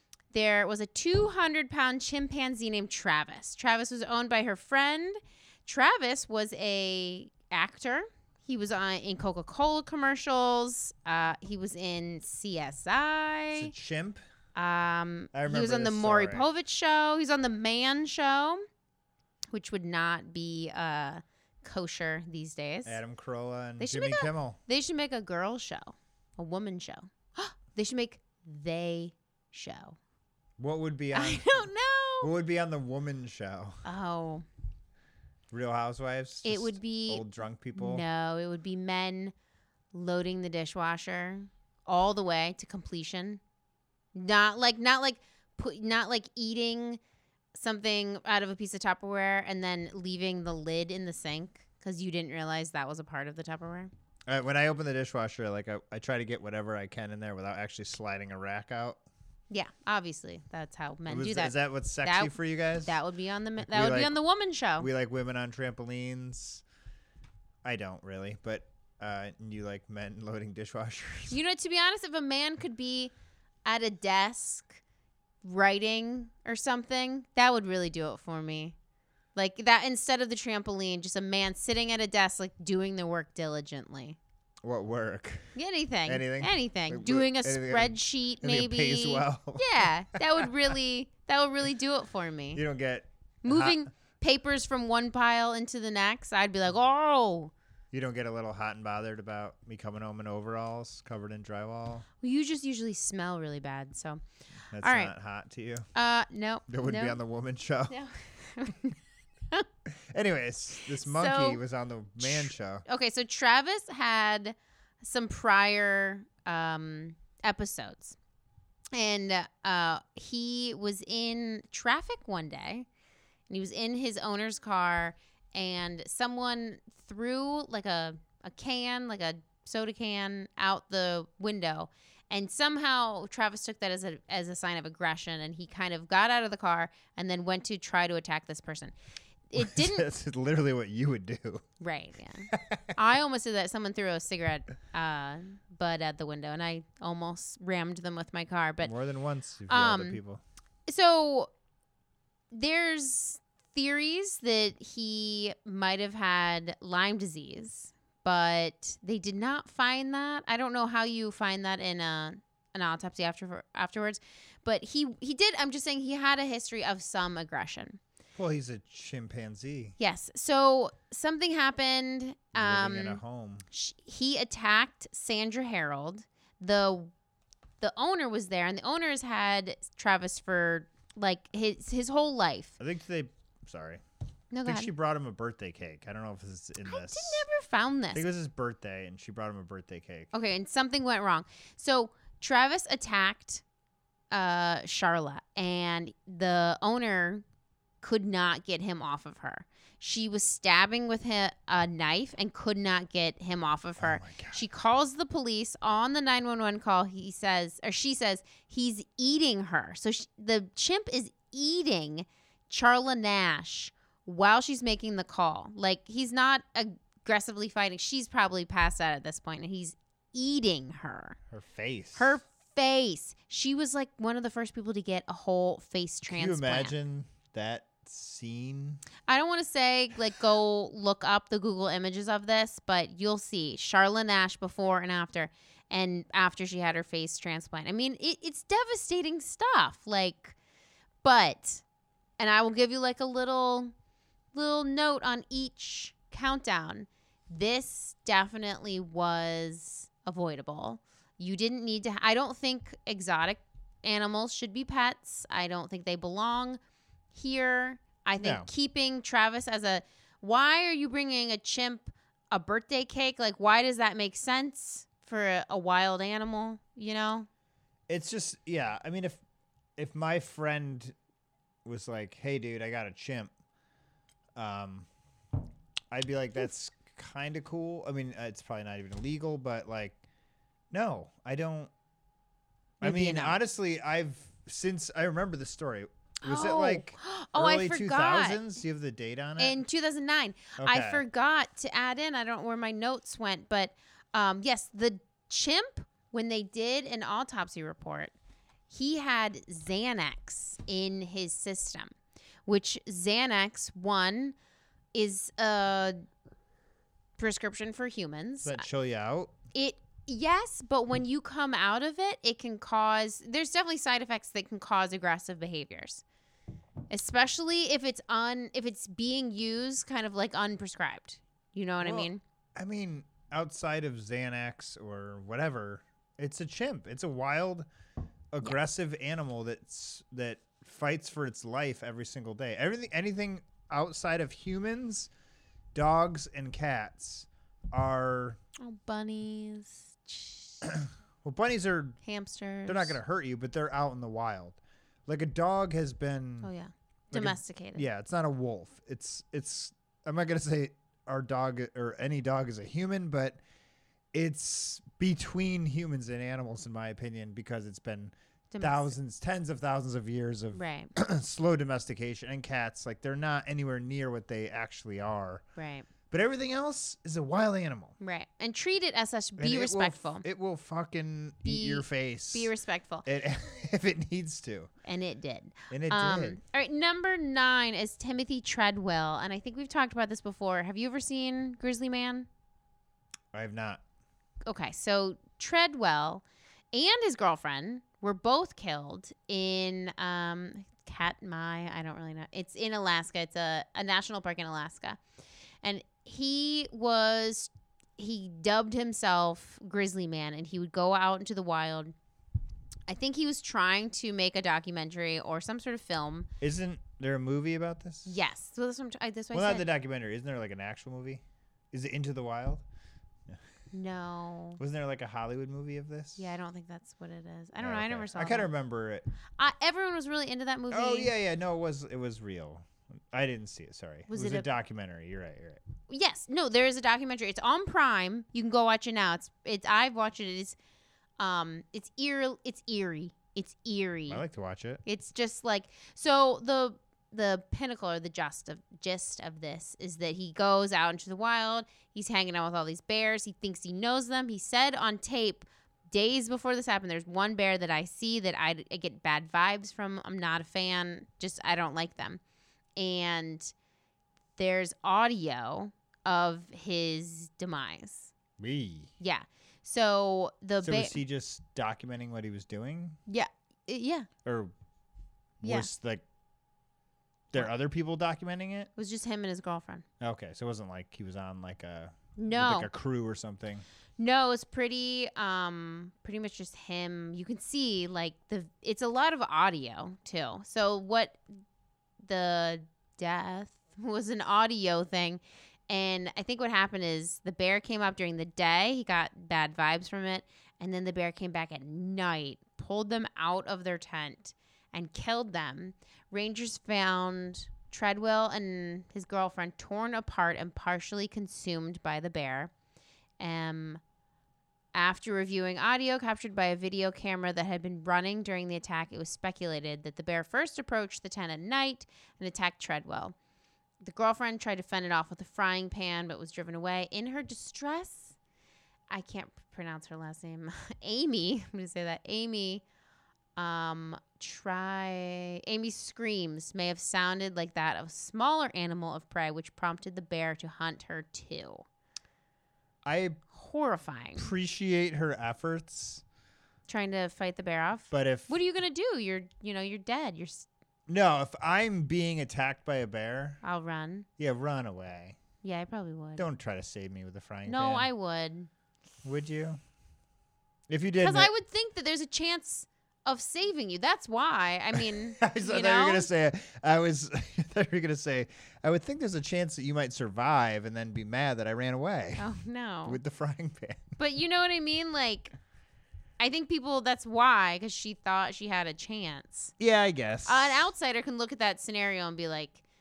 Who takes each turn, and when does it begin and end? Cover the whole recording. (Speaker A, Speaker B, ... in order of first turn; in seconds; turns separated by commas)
Speaker A: 0.3-13.7, Speaker B: 13.5-14.2, Speaker A: 14.6-18.6, Speaker B: 15.3-16.4, Speaker A: 19.5-23.0, Speaker B: 22.9-24.6, Speaker A: 23.8-30.0, Speaker B: 30.6-31.6, Speaker A: 31.1-32.3, Speaker B: 32.2-33.8, Speaker A: 33.8-34.4, Speaker B: 35.5-38.0, Speaker A: 36.4-37.2, Speaker A: 37.7-39.3, Speaker A: 39.9-43.4, Speaker A: 44.1-47.0, Speaker A: 47.5-53.9, Speaker B: 54.3-59.0, Speaker A: 59.5-64.9, Speaker B: 61.1-63.0, Speaker B: 63.6-64.1, Speaker B: 64.8-66.6, Speaker B: 67.6-71.4, Speaker A: 71.3-73.1, Speaker A: 73.6-74.8, Speaker A: 75.4-78.7, Speaker A: 79.3-84.2, Speaker B: 84.6-85.5, Speaker A: 85.5-92.6, Speaker B: 86.0-90.7, Speaker B: 92.5-93.8, Speaker A: 93.4-97.5, Speaker B: 97.9-102.0, Speaker A: 102.2-104.2, Speaker B: 104.7-105.8, Speaker A: 104.8-105.1, Speaker A: 105.9-107.2, Speaker B: 106.7-108.0, Speaker A: 107.9-109.0, Speaker B: 110.1-112.8, Speaker A: 110.8-111.6, Speaker A: 112.2-118.2, Speaker A: 118.9-122.9, Speaker A: 123.5-138.9, Speaker A: 139.5-140.1, Speaker B: 139.6-141.7, Speaker A: 141.8-148.9, Speaker B: 142.5-142.9, Speaker B: 148.8-150.4, Speaker A: 149.7-150.2, Speaker A: 150.9-151.5, Speaker A: 152.5-168.0, Speaker B: 168.3-169.9, Speaker A: 170.0-173.2, Speaker B: 172.5-173.6, Speaker A: 173.7-177.1, Speaker A: 177.8-182.8, Speaker B: 182.8-184.0, Speaker A: 184.5-184.9, Speaker B: 184.6-187.4, Speaker A: 186.8-188.2, Speaker B: 188.1-190.3, Speaker A: 190.3-193.6, Speaker A: 194.3-197.4, Speaker A: 198.0-221.4, Speaker B: 204.0-204.6, Speaker B: 221.5-222.3, Speaker A: 222.2-226.9, Speaker B: 226.2-229.0, Speaker A: 229.3-240.6, Speaker A: 241.2-241.8, Speaker A: 242.4-243.9, Speaker A: 244.5-256.8, Speaker A: 257.3-267.5, Speaker B: 258.4-258.7, Speaker B: 268.1-269.4, Speaker B: 270.0-271.1, Speaker B: 271.8-273.5, Speaker B: 274.5-275.1, Speaker B: 276.1-280.2, Speaker B: 280.9-281.9, Speaker A: 283.0-283.6, Speaker B: 283.0-289.8, Speaker A: 286.4-288.6, Speaker A: 289.6-298.3, Speaker B: 290.8-291.2, Speaker A: 298.9-302.1, Speaker A: 302.6-304.5, Speaker A: 305.1-306.2, Speaker A: 307.4-308.8, Speaker B: 308.6-309.6, Speaker A: 309.7-316.2, Speaker A: 317.1-322.4, Speaker B: 322.0-327.9, Speaker B: 328.5-335.3, Speaker B: 335.9-338.6, Speaker A: 338.8-340.9, Speaker B: 340.8-342.2, Speaker A: 342.2-343.2, Speaker B: 342.9-346.7, Speaker A: 346.6-348.0, Speaker B: 347.3-353.6, Speaker B: 354.3-365.6, Speaker A: 358.7-359.1, Speaker A: 360.7-361.1, Speaker A: 365.8-366.1, Speaker B: 366.3-368.1, Speaker A: 368.2-370.4, Speaker B: 369.6-372.7, Speaker A: 371.6-373.2, Speaker B: 373.2-374.9, Speaker A: 375.0-382.5, Speaker B: 375.9-376.6, Speaker B: 383.5-384.0, Speaker A: 384.6-395.2, Speaker A: 395.8-402.1, Speaker A: 403.1-406.5, Speaker B: 406.6-408.3, Speaker A: 408.2-409.9, Speaker B: 409.5-412.8, Speaker A: 413.9-414.8, Speaker B: 414.8-416.5, Speaker A: 416.4-418.7, Speaker B: 417.8-419.3, Speaker A: 419.6-421.3, Speaker B: 420.9-425.8, Speaker A: 424.3-424.7, Speaker A: 426.1-430.8, Speaker A: 431.4-434.4, Speaker B: 434.3-435.0, Speaker A: 435.0-452.4, Speaker A: 453.0-453.7, Speaker A: 454.6-458.3, Speaker B: 458.6-459.1, Speaker A: 459.2-461.2, Speaker B: 460.8-463.2, Speaker A: 463.3-464.3, Speaker B: 464.4-464.7, Speaker B: 465.6-466.2, Speaker A: 465.6-465.9, Speaker B: 467.5-468.9, Speaker A: 468.9-470.0, Speaker B: 470.2-473.8, Speaker A: 472.4-472.9, Speaker A: 474.2-481.4, Speaker A: 482.2-502.7, Speaker A: 503.4-504.0, Speaker A: 504.9-513.4, Speaker A: 514.0-518.3, Speaker A: 519.1-522.8, Speaker A: 523.5-531.8, Speaker B: 533.0-533.4, Speaker A: 533.5-534.5, Speaker B: 534.4-536.2, Speaker A: 536.9-540.7, Speaker B: 538.1-538.5, Speaker B: 541.1-543.6, Speaker A: 543.6-544.3, Speaker B: 544.4-545.4, Speaker A: 545.6-546.5, Speaker B: 546.4-548.1, Speaker A: 547.6-548.7, Speaker B: 549.2-549.8, Speaker B: 550.9-551.5, Speaker A: 551.2-556.3, Speaker B: 554.9-562.5, Speaker A: 562.4-563.2, Speaker B: 563.0-564.1, Speaker A: 564.2-565.5, Speaker A: 566.4-569.7, Speaker B: 569.8-570.9, Speaker A: 570.5-572.8